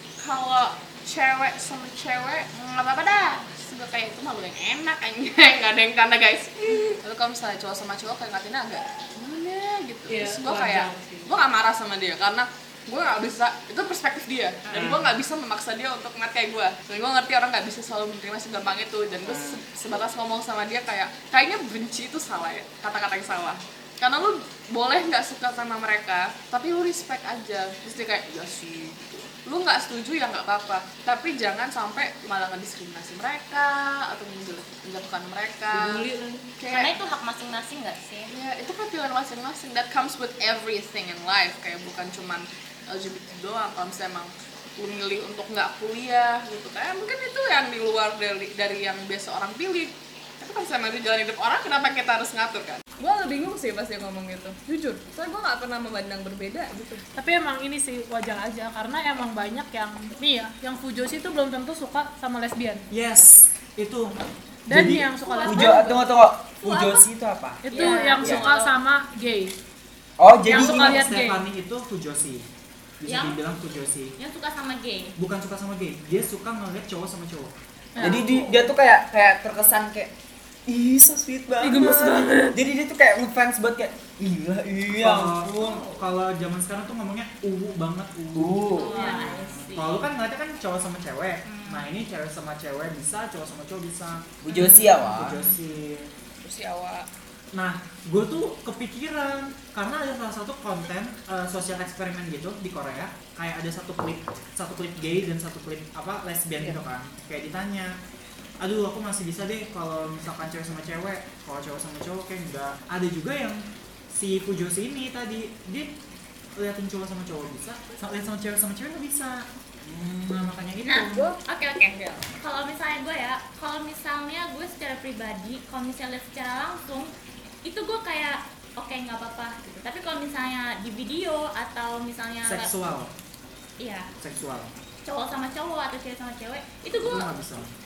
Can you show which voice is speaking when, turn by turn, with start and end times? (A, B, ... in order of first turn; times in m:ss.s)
0:00.2-0:36.0 A
0:10.1-0:11.3 B
0:14.7-0:15.1 C
0:19.2-0:19.6 C
0:35.7-0:36.5 B
0:36.6-0:36.9 A
0:36.7-0:38.3 D
0:38.3-0:57.0 A
0:57.1-1:02.8 B
1:02.9-1:04.1 C
1:04.7-1:06.0 B
1:04.7-1:07.6 E
1:05.3-1:05.9 A
1:06.6-1:07.0 B
1:07.6-1:09.5 B
1:07.7-1:08.6 D
1:07.8-1:08.7 A
1:08.2-1:08.5 E
1:10.2-1:11.1 E
1:10.5-1:11.4 B
1:10.5-1:12.4 C
1:13.0-1:14.1 C
1:13.0-1:13.4 D
1:14.2-1:15.1 D
1:15.2-1:17.5 C
1:17.9-1:18.5 B
1:18.0-1:20.1 E
1:20.7-1:25.5 E
1:21.6-1:22.6 B
1:24.9-1:36.1 C
1:25.6-1:25.9 D
1:28.3-1:29.2 E
1:28.7-1:30.0 D
1:31.4-1:31.9 D
1:34.4-1:35.4 E
1:36.4-1:37.1 A
1:37.5-1:47.9 C
1:48.6-1:53.6 C
1:54.1-1:55.9 C
1:56.6-2:01.3 C
2:00.8-2:07.1 D
2:01.1-2:01.4 A
2:07.6-2:12.7 D
2:12.4-2:13.1 C
2:13.8-2:14.1 D
2:14.2-2:14.7 C
2:15.0-2:17.3 D
2:17.0-2:17.7 C